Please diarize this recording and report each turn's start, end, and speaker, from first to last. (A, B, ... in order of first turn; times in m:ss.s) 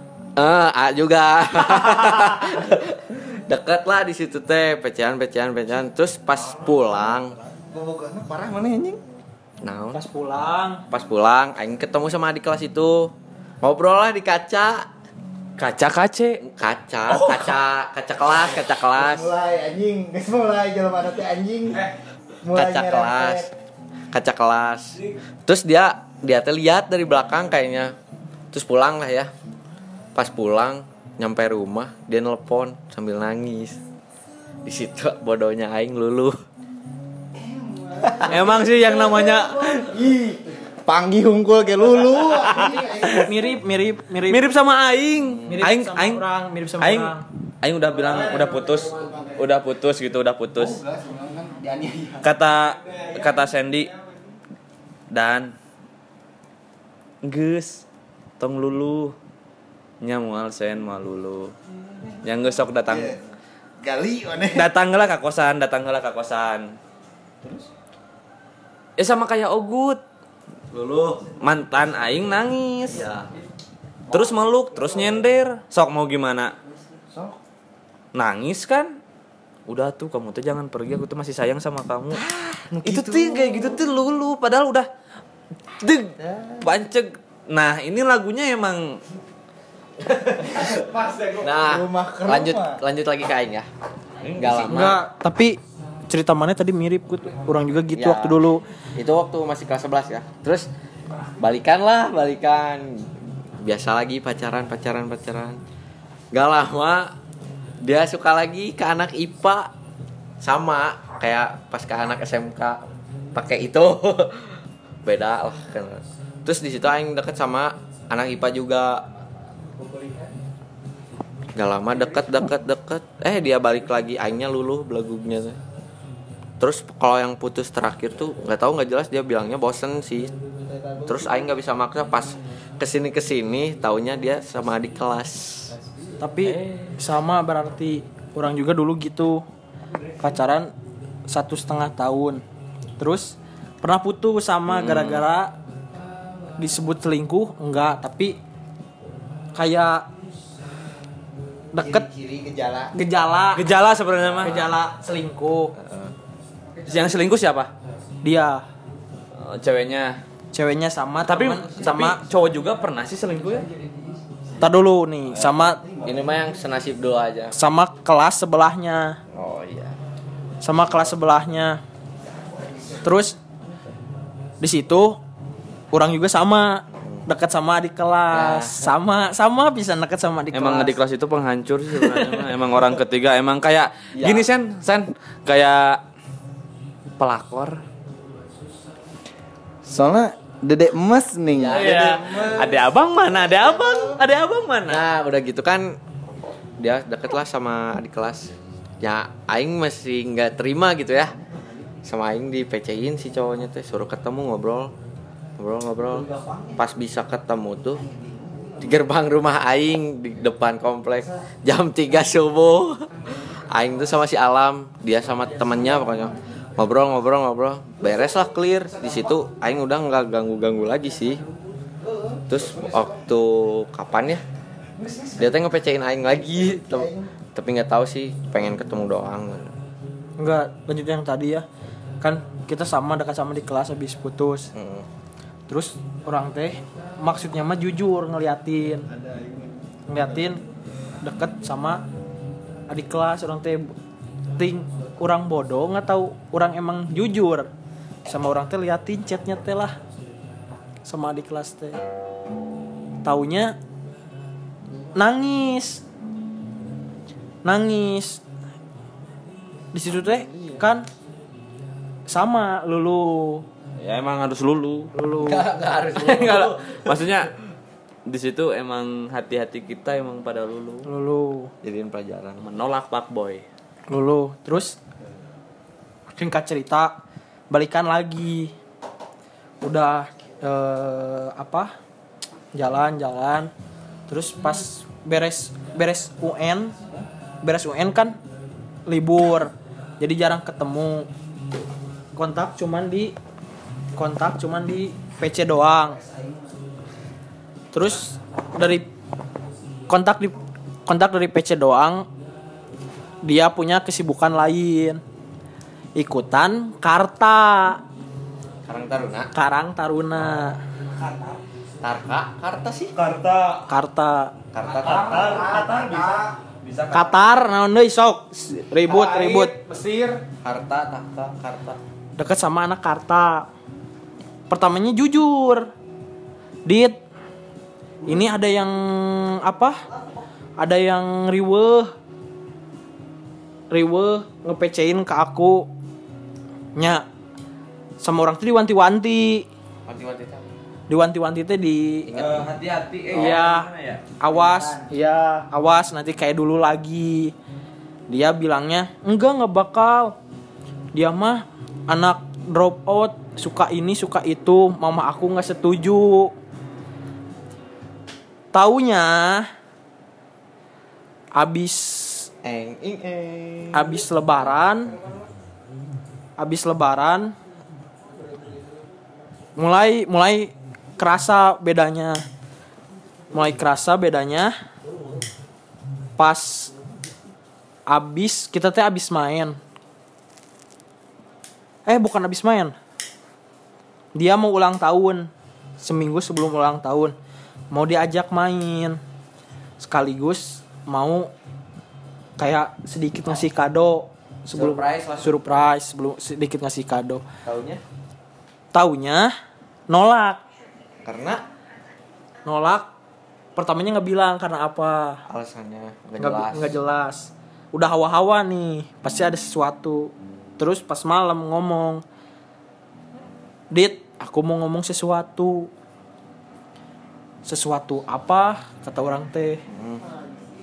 0:00.4-0:07.4 A
0:07.6-0:09.0 B
0:09.6-0:10.0 A
0:09.9-0:10.8 C
0:10.9-0:14.9 A
0:15.6-0:16.4 D
0:16.4-0:19.3 A
0:17.1-0:17.5 D
0:19.0-0:21.9 B
0:22.4-0:23.5 B
0:22.5-0:23.5 A
0:24.1-0:28.0 A
0:28.5-0:29.3 A
0:30.2-0:33.8 A
0:34.6-0:36.4 A
0:37.3-0:43.5 B
0:38.2-0:40.0 D
0:42.3-0:43.2 D
0:43.1-0:44.5 C
0:44.3-0:46.2 D
0:45.3-0:45.5 A
0:45.5-0:47.2 C
0:46.8-0:50.8 D
0:50.6-0:52.3 B
0:52.2-0:53.9 D
0:55.1-0:55.5 D
0:57.2-0:57.8 D
0:58.4-0:59.2 D
1:00.0-1:01.6 D
1:02.2-1:03.2 D
1:02.9-1:03.2 B
1:03.8-1:04.7 B
1:04.5-1:06.8 D
1:07.4-1:07.7 B
1:09.0-1:10.0 D
1:10.7-1:11.2 B
1:11.3-1:13.3 D
1:14.1-1:16.6 D
1:17.1-1:17.4 B
1:18.1-1:19.0 D
1:19.7-1:22.2 D
1:22.1-1:23.8 B
1:22.8-1:24.9 D
1:25.8-1:29.0 D
1:26.2-1:26.7 B
1:30.4-1:32.8 B
1:31.4-1:33.7 A
1:34.2-1:34.8 D
1:34.4-1:35.0 A
1:34.7-1:38.6 C
1:37.9-1:38.4 A
1:39.0-1:40.7 A
1:41.4-1:43.1 A
1:43.6-1:45.6 A
1:46.3-1:47.2 A
1:47.8-1:49.7 A
1:50.4-1:52.8 A
1:53.3-1:59.1 A
2:01.6-2:05.6 A
2:06.6-2:10.3 A
2:10.7-2:11.2 B
2:11.1-2:15.7 A
2:16.2-2:19.4 C
2:16.4-2:16.9 D
2:20.2-2:20.7 C
2:21.3-2:22.4 C
2:23.0-2:25.6 C
2:24.7-2:25.2 D
2:26.6-2:28.4 C
2:29.6-2:30.1 C
2:31.7-2:32.1 C
2:31.8-2:32.9 B
2:32.9-2:33.7 C
2:33.6-2:34.6 D
2:34.4-2:35.7 C
2:35.8-2:36.1 A
2:36.8-2:37.7 D
2:38.2-2:38.6 C
2:39.4-2:40.2 D
2:40.5-2:42.2 C
2:41.2-2:43.7 D
2:44.6-2:45.8 C
2:46.0-2:47.5 A
2:47.5-2:49.2 C
2:49.3-2:50.0 A
2:50.6-2:51.8 C
2:53.0-2:53.4 C
2:54.6-2:55.2 C
2:55.9-3:01.0 C
2:57.0-2:57.3 A
2:58.3-2:58.9 A
3:00.5-3:06.0 D
3:02.0-3:02.4 C
3:04.1-3:04.5 A
3:07.2-3:07.8 D
3:09.8-3:14.2 B
3:11.6-3:12.8 A
3:11.7-3:15.0 D
3:14.9-3:16.0 A
3:16.8-3:21.4 A
3:22.0-3:24.9 A
3:25.6-3:28.0 A
3:26.2-3:26.8 B
3:28.3-3:28.7 B
3:28.8-3:41.4 A
3:42.0-3:43.2 B
3:42.5-3:44.4 A
3:45.0-3:45.5 B
3:45.4-3:49.7 A
3:46.7-3:47.3 B
3:50.4-3:51.7 C
3:52.2-3:54.7 C
3:54.7-3:55.1 A
3:55.7-3:59.1 C
4:00.1-4:00.6 C
4:01.2-4:02.0 C
4:02.9-4:03.9 C
4:04.6-4:07.7 C
4:08.3-4:10.0 C
4:11.0-4:12.0 C
4:13.2-4:13.8 C
4:15.2-4:16.0 C
4:17.6-4:18.4 C
4:19.9-4:21.1 C
4:20.5-4:20.8 D
4:22.3-4:23.7 C
4:24.0-4:25.1 D
4:25.1-4:25.7 C
4:25.4-4:27.4 A
4:26.2-4:27.5 D
4:28.3-4:31.1 D
4:31.0-4:31.7 C
4:31.8-4:32.6 A
4:32.6-4:33.6 D
4:34.1-4:35.0 C
4:36.4-4:37.2 C
4:37.7-4:38.7 C
4:39.8-4:42.0 C
4:42.7-4:43.7 C
4:44.3-4:47.0 C
4:47.6-4:48.4 C
4:49.1-4:51.3 C
4:52.4-4:53.4 C
4:54.2-4:56.2 C
4:56.2-4:56.6 B
4:57.9-4:59.1 C
5:00.1-5:00.6 C
5:01.1-5:02.3 C
5:03.4-5:05.2 C
5:06.2-5:08.0 C
5:08.9-5:09.5 A
5:09.5-5:10.8 C
5:11.2-5:11.6 D
5:12.0-5:13.2 A
5:13.2-5:13.9 D
5:13.9-5:14.6 C
5:14.7-5:15.8 A
5:14.9-5:17.5 D
5:15.4-5:16.3 B
5:17.1-5:19.8 C
5:20.1-5:22.0 A
5:22.4-5:23.7 C
5:24.7-5:25.9 C
5:26.8-5:27.2 C
5:28.2-5:30.0 C
5:30.8-5:32.1 C
5:33.9-5:35.9 C
5:37.0-5:37.3 C
5:38.2-5:39.7 C
5:40.1-5:40.7 A
5:41.1-5:42.3 C
5:42.3-5:42.7 A
5:42.3-5:44.2 D
5:43.3-5:47.5 C
5:44.6-5:44.8 B
5:48.3-5:50.4 C
5:51.1-5:56.5 C
5:58.7-5:59.7 C
6:01.6-6:02.5 C
6:02.6-6:04.2 A
6:03.9-6:05.1 C
6:06.6-6:07.6 C
6:09.8-6:12.4 C
6:13.5-6:14.7 C
6:16.4-6:16.9 C
6:18.1-6:19.8 C
6:22.1-6:23.0 C
6:24.4-6:27.4 C
6:27.9-6:29.2 C
6:30.0-6:31.5 C
6:32.6-6:37.4 C
6:34.7-6:35.6 A
6:37.6-6:38.0 A
6:38.9-6:39.5 C
6:40.1-6:40.6 C
6:41.2-6:41.6 A
6:42.6-6:43.1 C
6:43.8-6:45.4 C
6:45.5-6:47.0 A
6:46.4-6:52.2 C
6:53.9-6:55.9 C
6:57.6-6:59.8 C
6:59.9-7:00.2 A